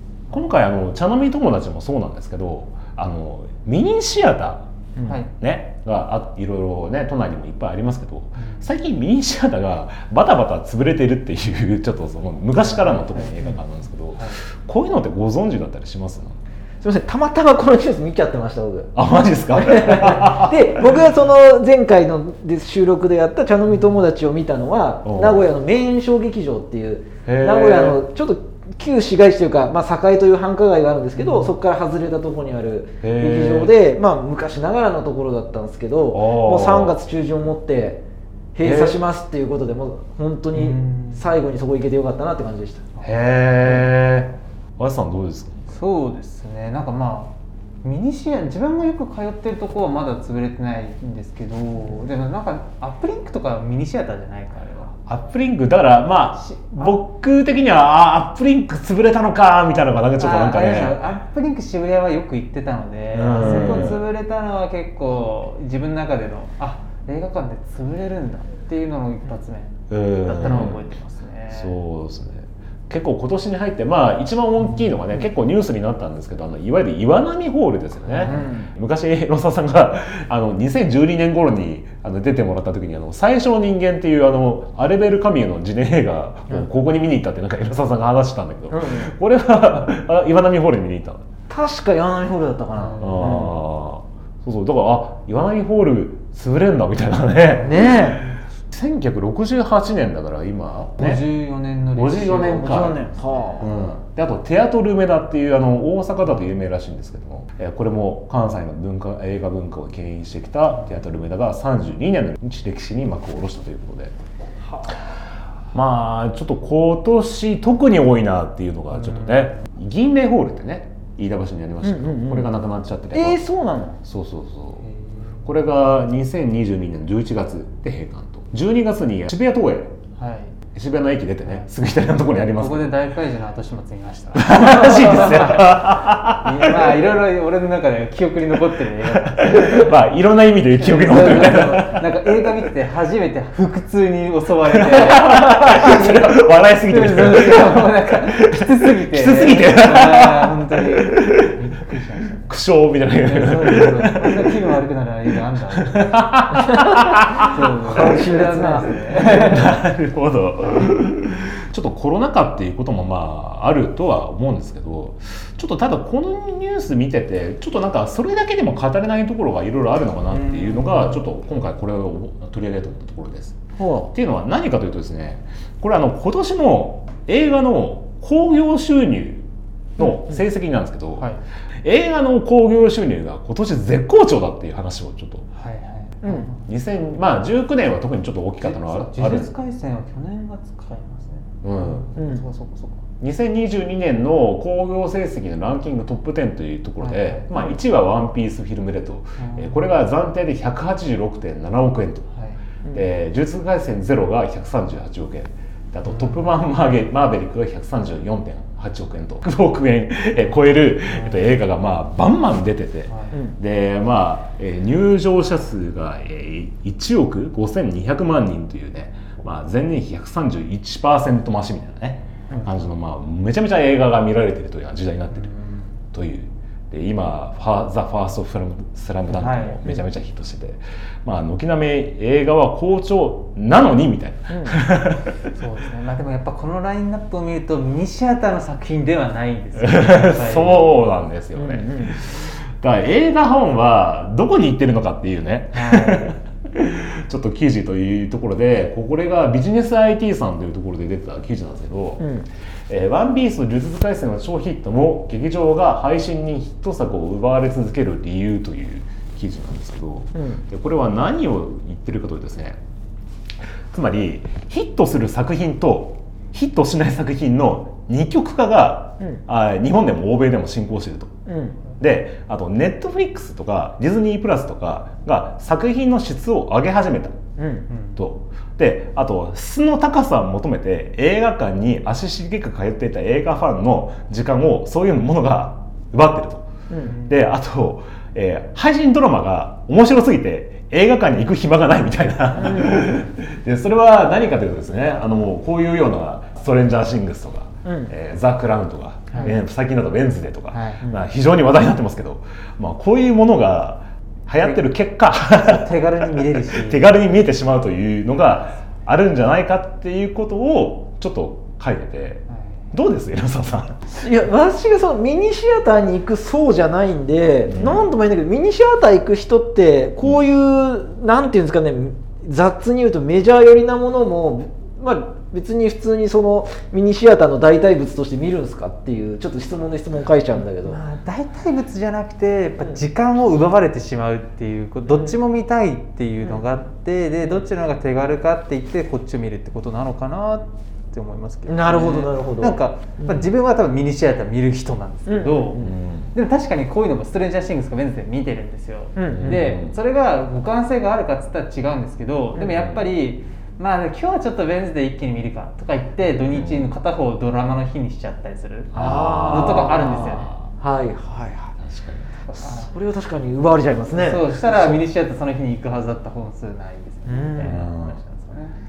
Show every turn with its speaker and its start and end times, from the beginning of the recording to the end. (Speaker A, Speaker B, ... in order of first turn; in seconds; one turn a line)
Speaker A: 0.3-4.7
Speaker B: 5.0-5.2
Speaker A: 5.3-16.4
Speaker C: 8.4-8.7
Speaker C: 13.0-13.6
Speaker B: 16.8-18.9
Speaker A: 18.9-20.9
Speaker B: 19.5-38.0
Speaker A: 25.0-25.4
Speaker A: 27.2-28.0
Speaker C: 31.2-31.5
Speaker A: 33.0-33.7
Speaker A: 36.1-37.0
Speaker B: 38.5-42.8
Speaker A: 38.6-39.0
Speaker C: 40.5-41.3
Speaker A: 43.0-45.7
Speaker C: 45.7-55.0
Speaker A: 55.1-61.0
Speaker C: 56.4-57.0
Speaker C: 60.2-71.8
Speaker A: 63.1-64.1
Speaker A: 69.9-70.9
Speaker A: 71.5-91.2
Speaker C: 78.1-78.5
Speaker B: 78.2-78.7
Speaker B: 88.7-89.1
Speaker B: 91.5-93.5
Speaker C: 92.8-93.5
Speaker A: 93.0-101.2
Speaker B: 97.6-98.2
Speaker C: 101.0-103.5
Speaker A: 101.9-103.0
Speaker B: 102.6-103.7
Speaker A: 103.6-114.1
Speaker A: 115.7-123.4
Speaker C: 119.0-119.5
Speaker B: 121.8-122.5
Speaker B: 123.1-124.0
Speaker A: 124.0-124.8
Speaker C: 124.8-125.3
Speaker A: 125.5-130.0
Speaker C: 130.2-130.6
Speaker A: 130.7-132.9
Speaker C: 132.5-140.0
Speaker A: 134.3-137.0
Speaker A: 139.0-142.1
Speaker C: 140.8-152.5
Speaker A: 144.7-151.6
Speaker A: 152.5-154.6
Speaker C: 153.2-156.2
Speaker A: 155.8-158.1
Speaker B: 156.5-159.7
Speaker C: 157.4-159.7
Speaker A: 159.3-173.6
Speaker C: 170.3-171.2
Speaker B: 173.8-174.1
Speaker A: 174.1-179.5
Speaker A: 180.0-181.3
Speaker B: 180.0-180.4
Speaker A: 181.8-185.4
Speaker C: 185.6-186.6
Speaker B: 186.2-186.5
Speaker A: 186.6-189.5
Speaker C: 188.6-193.0
Speaker A: 191.6-192.1
Speaker B: 192.2-192.4
Speaker A: 193.2-202.3
Speaker C: 197.0-197.8
Speaker C: 199.4-199.9
Speaker C: 202.3-202.6
Speaker A: 202.9-225.5
Speaker C: 206.1-206.5
Speaker C: 211.1-211.4
Speaker C: 213.1-213.3
Speaker C: 225.3-225.9
Speaker A: 226.1-235.4
Speaker C: 229.3-229.9
Speaker B: 234.5-234.8
Speaker C: 235.5-241.0
Speaker A: 239.8-252.2
Speaker B: 241.6-242.2
Speaker C: 245.7-246.3
Speaker B: 252.2-252.5
Speaker A: 252.9-262.8
Speaker B: 260.4-260.6
Speaker A: 263.9-271.3
Speaker B: 271.5-271.8
Speaker A: 271.9-277.4
Speaker B: 277.6-277.9
Speaker A: 278.2-286.7
Speaker B: 286.9-287.2
Speaker A: 287.2-314.2
Speaker B: 292.6-293.2
Speaker B: 297.9-298.1
Speaker C: 300.7-301.1
Speaker C: 305.6-307.1
Speaker B: 314.2-331.0
Speaker A: 317.7-318.1
Speaker C: 330.9-345.8
Speaker B: 335.1-335.3
Speaker B: 341.7-343.5
Speaker B: 345.3-346.0
Speaker A: 345.8-346.3
Speaker C: 346.3-360.5
Speaker B: 349.2-349.6
Speaker A: 349.3-350.0
Speaker A: 352.7-353.0
Speaker A: 356.5-356.9
Speaker A: 358.9-360.7
Speaker B: 358.9-360.3
Speaker B: 360.8-361.8
Speaker A: 361.8-362.4
Speaker B: 362.5-364.6
Speaker C: 362.6-362.9
Speaker C: 364.2-368.8
Speaker A: 364.6-365.0
Speaker B: 367.3-367.8
Speaker A: 367.6-368.2